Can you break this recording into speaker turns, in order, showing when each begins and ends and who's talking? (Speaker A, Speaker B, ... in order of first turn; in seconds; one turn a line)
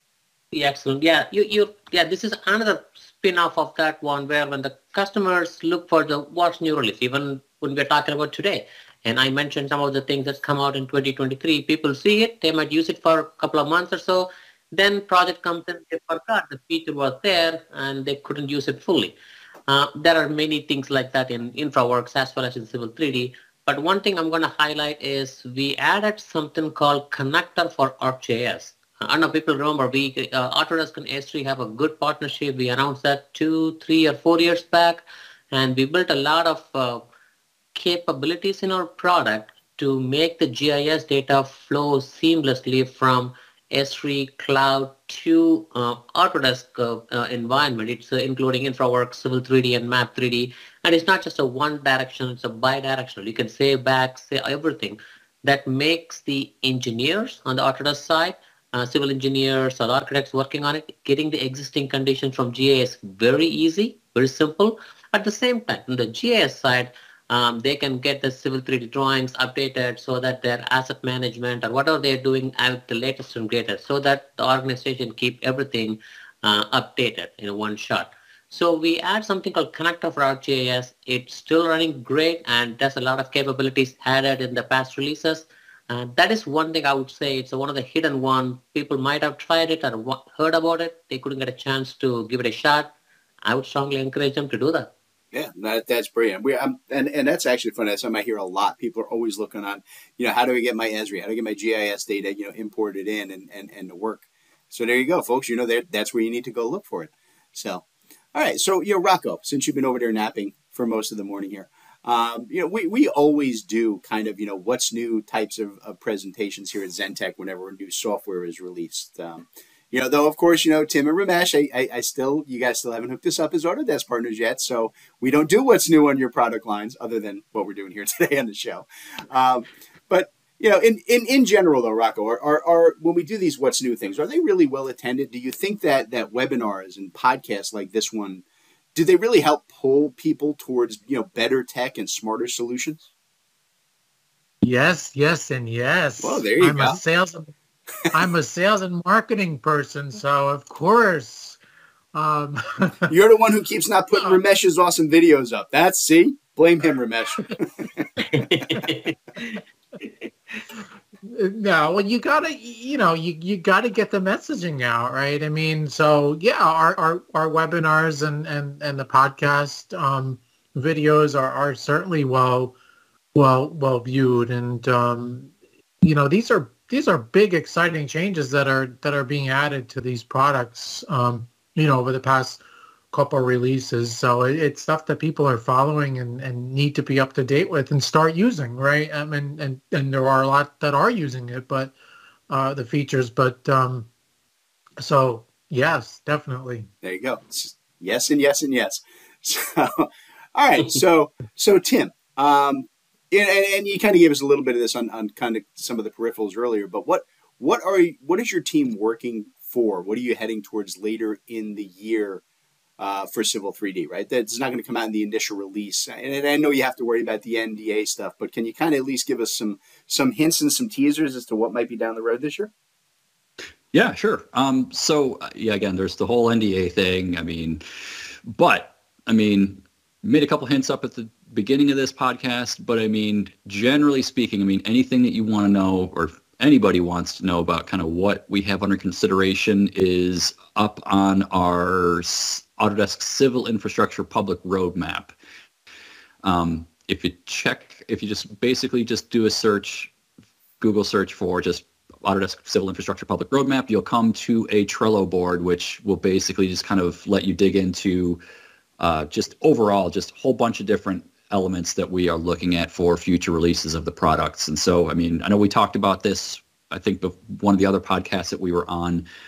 Speaker A: 0.5-19.2
Speaker A: 19.7-37.0
Speaker A: 37.8-92.9
Speaker A: 93.5-94.9
Speaker B: 95.3-138.4
Speaker B: 138.9-143.1
Speaker C: 144.6-147.5
Speaker B: 146.2-147.0
Speaker C: 148.1-151.6
Speaker C: 152.1-153.1
Speaker B: 153.1-158.1
Speaker A: 158.3-159.6
Speaker C: 161.3-172.8
Speaker C: 173.3-191.9
Speaker C: 192.5-194.1
Speaker C: 195.0-196.9
Speaker B: 197.0-212.4
Speaker B: 213.0-222.7
Speaker D: 223.9-227.8
Speaker D: 228.5-245.4
Speaker D: 246.4-250.1
Speaker D: 250.8-258.4
Speaker D: 259.0-269.2